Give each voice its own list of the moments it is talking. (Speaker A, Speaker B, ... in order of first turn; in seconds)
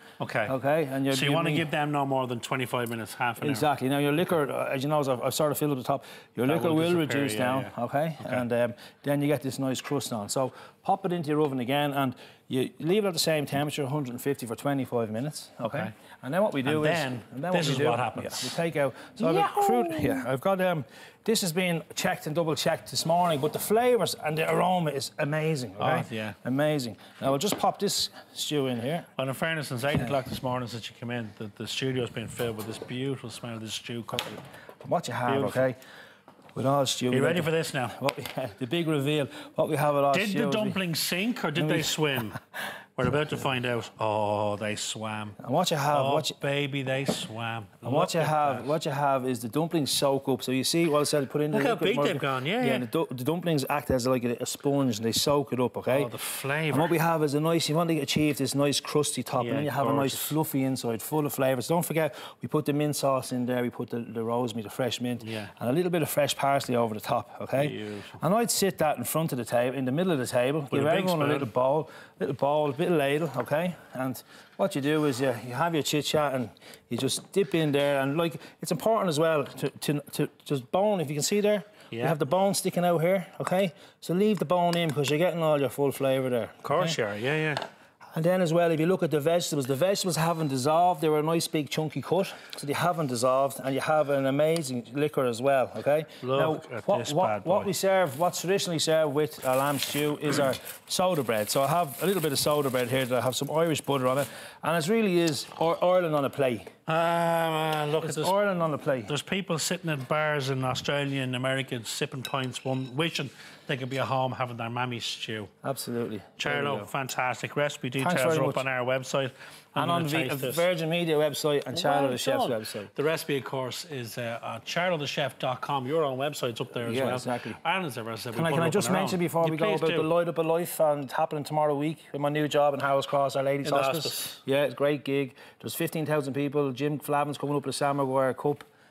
Speaker A: 0.2-0.5, 1.1-3.6, 6.5-8.4, 16.6-18.5, 19.2-20.2, 25.8-26.4, 29.1-34.4, 35.3-35.7, 37.1-38.0, 40.1-42.4, 43.0-45.4, 45.9-48.7, 51.5-52.9, 55.9-56.9, 59.4-60.4, 65.2-65.5, 67.5-68.2, 70.7-71.5, 81.9-82.2, 86.6-87.6, 96.2-97.7, 106.9-108.3, 109.1-115.5, 116.4-120.6, 121.7-130.1, 133.6-134.4
Speaker B: 0.5-1.7, 3.4-29.1, 34.8-35.8, 36.5-40.8, 41.5-42.2, 45.4-46.4, 47.8-56.1, 56.7-87.0, 88.1-106.7, 108.0-109.1, 115.6-116.9, 118.0-118.6, 119.7-122.9, 126.8-127.6, 128.3-138.6